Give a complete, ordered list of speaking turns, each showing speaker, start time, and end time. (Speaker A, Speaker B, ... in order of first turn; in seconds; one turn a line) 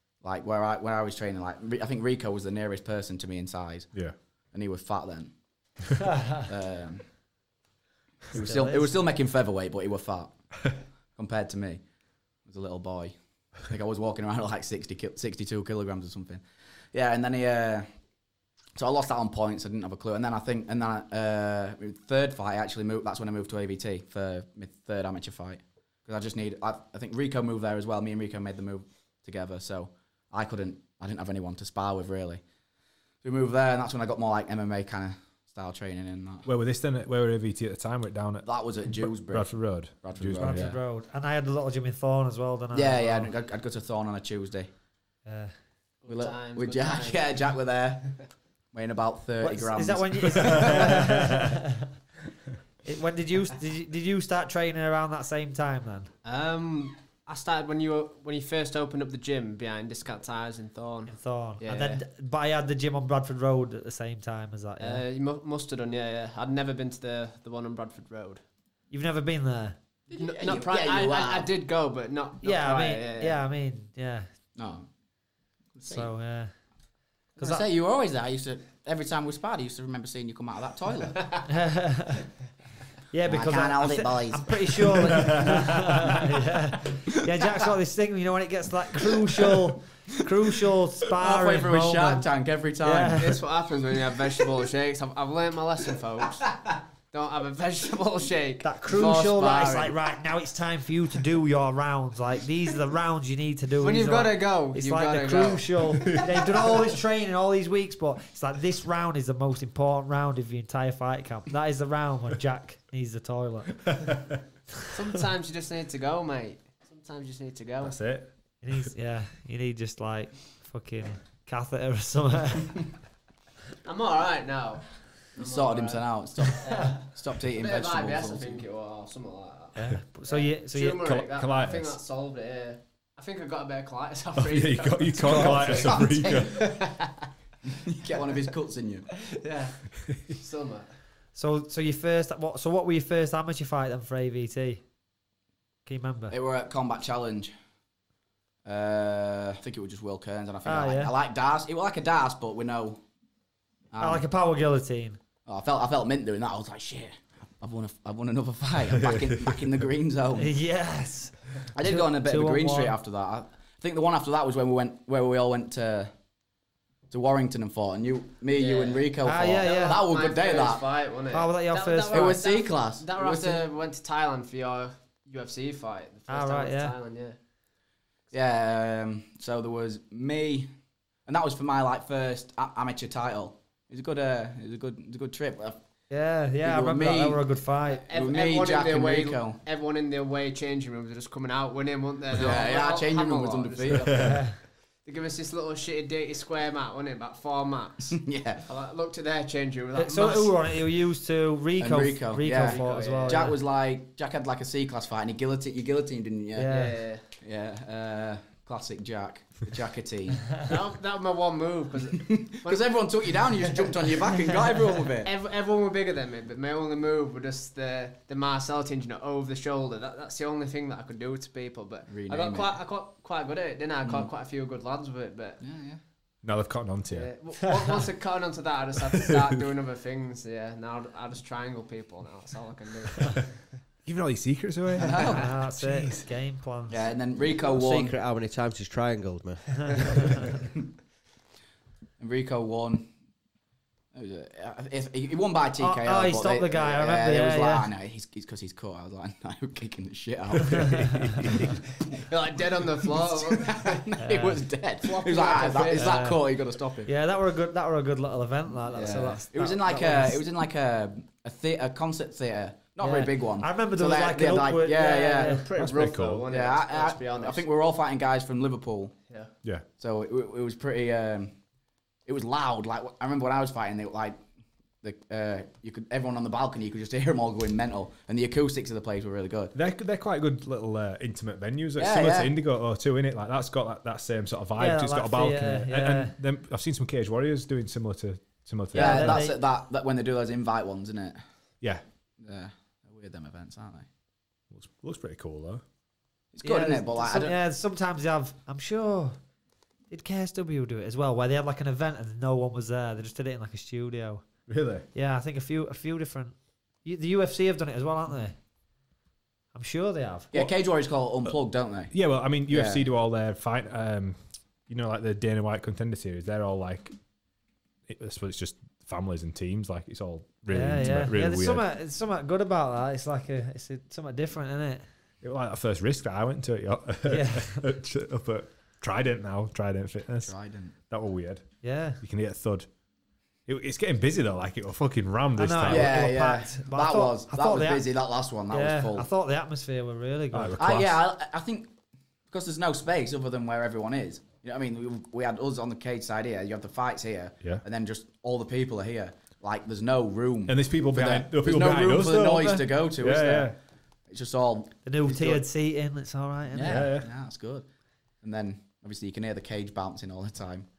Speaker A: 0.2-3.9
Speaker A: 4.5-5.3
Speaker B: 6.2-6.5
Speaker A: 6.4-7.0
Speaker A: 8.3-10.3
Speaker B: 8.3-8.9
Speaker A: 11.2-11.8
Speaker A: 12.4-13.1
Speaker A: 13.7-17.9
Speaker A: 18.8-32.4
Speaker A: 33.2-36.5
Speaker C: 36.5-40.7
Speaker A: 38.4-40.8
Speaker B: 40.4-43.3
Speaker A: 42.7-44.7
Speaker B: 45.2-45.5
Speaker D: 46.0-47.4
Speaker A: 46.1-48.1
Speaker A: 48.7-51.1
Speaker B: 49.4-51.9
Speaker B: 52.8-56.1
Speaker D: 56.2-62.0
Speaker B: 61.1-65.0
Speaker D: 64.8-68.4
Speaker B: 68.9-69.8
Speaker A: 70.1-71.5
Speaker D: 70.1-73.4
Speaker B: 72.4-74.3
Speaker A: 74.5-74.9
Speaker A: 75.8-76.1
Speaker B: 75.9-76.5
Speaker B: 77.4-77.6
Speaker A: 77.4-81.2
Speaker B: 81.5-82.3
Speaker B: 83.1-92.2
Speaker A: 83.3-85.6
Speaker A: 89.3-89.7
Speaker A: 91.1-93.4
Speaker B: 92.8-93.4
Speaker D: 93.2-100.1
Speaker B: 98.6-114.2
Speaker D: 103.8-106.7
Speaker C: 113.9-114.3
Speaker D: 114.9-118.0
Speaker C: 117.8-118.3
Speaker B: 118.6-122.9
Speaker D: 123.8-137.1
Speaker A: 125.4-128.6
Speaker B: 129.8-131.1
Speaker C: 130.9-132.0
Speaker C: 134.4-136.7
Speaker A: 135.3-136.7
Speaker A: 137.7-139.1
Speaker D: 139.2-140.9
Speaker B: 141.3-144.8
Speaker B: 145.8-146.3
Speaker A: 146.3-147.5
Speaker A: 148.6-153.0
Speaker B: 150.6-151.1
Speaker A: 153.9-154.2
Speaker B: 154.0-155.2
Speaker A: 155.4-160.5
Speaker B: 160.3-162.9
Speaker A: 161.7-166.1
Speaker A: 167.1-170.8
Speaker D: 168.6-177.4
Speaker B: 169.2-170.0
Speaker B: 171.3-172.4
Speaker A: 172.1-173.7
Speaker B: 176.3-176.9
Speaker A: 178.3-180.7
Speaker A: 181.2-185.8
Speaker B: 186.1-188.0
Speaker A: 186.6-187.4
Speaker D: 188.1-194.5
Speaker A: 188.1-189.6
Speaker A: 192.3-194.3
Speaker C: 194.1-194.3
Speaker B: 194.2-194.5
Speaker D: 195.0-200.7
Speaker A: 198.1-198.6
Speaker B: 199.9-203.6
Speaker A: 201.8-206.7
Speaker D: 202.5-203.5
Speaker B: 206.6-206.9
Speaker D: 206.7-207.2
Speaker A: 207.4-210.5
Speaker D: 210.6-212.9
Speaker A: 212.2-215.3
Speaker D: 213.5-213.9
Speaker D: 215.2-225.6
Speaker A: 222.1-222.7
Speaker A: 224.0-224.3
Speaker A: 225.6-226.0
Speaker C: 226.4-227.3
Speaker D: 227.1-233.5
Speaker C: 234.0-236.2
Speaker A: 235.0-235.5
Speaker B: 235.2-237.0
Speaker A: 236.9-238.2
Speaker E: 237.6-240.5
Speaker A: 242.2-243.1
Speaker A: 244.1-252.2
Speaker B: 245.8-247.9
Speaker C: 250.7-251.7
Speaker D: 252.1-254.2
Speaker A: 253.0-257.1
Speaker B: 254.2-254.6
Speaker D: 255.0-256.2
Speaker B: 255.8-256.4
Speaker B: 257.1-260.4
Speaker A: 258.9-265.6
Speaker D: 258.9-259.3
Speaker B: 263.0-265.7
Speaker D: 265.0-267.6
Speaker C: 265.8-266.4
Speaker A: 266.5-269.1
Speaker A: 270.0-271.6
Speaker A: 272.2-274.4
Speaker A: 275.0-279.7
Speaker C: 279.7-289.4
Speaker A: 282.0-282.5
Speaker B: 284.8-286.3
Speaker B: 288.9-289.6
Speaker A: 288.9-291.4
Speaker A: 292.4-294.1
Speaker C: 294.7-295.8
Speaker A: 296.5-297.6
Speaker B: 296.6-299.4
Speaker B: 300.1-304.4
Speaker C: 304.7-305.1
Speaker B: 305.1-308.6
Speaker B: 309.7-310.6
Speaker A: 310.5-312.1
Speaker C: 312.1-317.1
Speaker A: 312.7-313.0
Speaker C: 318.1-321.8
Speaker B: 320.7-325.1
Speaker C: 325.4-330.5
Speaker B: 327.2-327.8
Speaker A: 330.4-330.9
Speaker C: 331.1-331.6
Speaker B: 331.8-332.2
Speaker C: 332.2-332.9
Speaker C: 333.7-336.1
Speaker B: 335.6-338.0
Speaker A: 335.9-339.3
Speaker B: 338.7-340.8
Speaker C: 340.5-341.2
Speaker A: 340.8-341.9
Speaker A: 342.5-353.7
Speaker C: 350.7-353.8
Speaker A: 354.3-355.6
Speaker B: 355.0-357.1
Speaker A: 356.7-357.9
Speaker C: 356.8-357.3
Speaker A: 358.4-360.9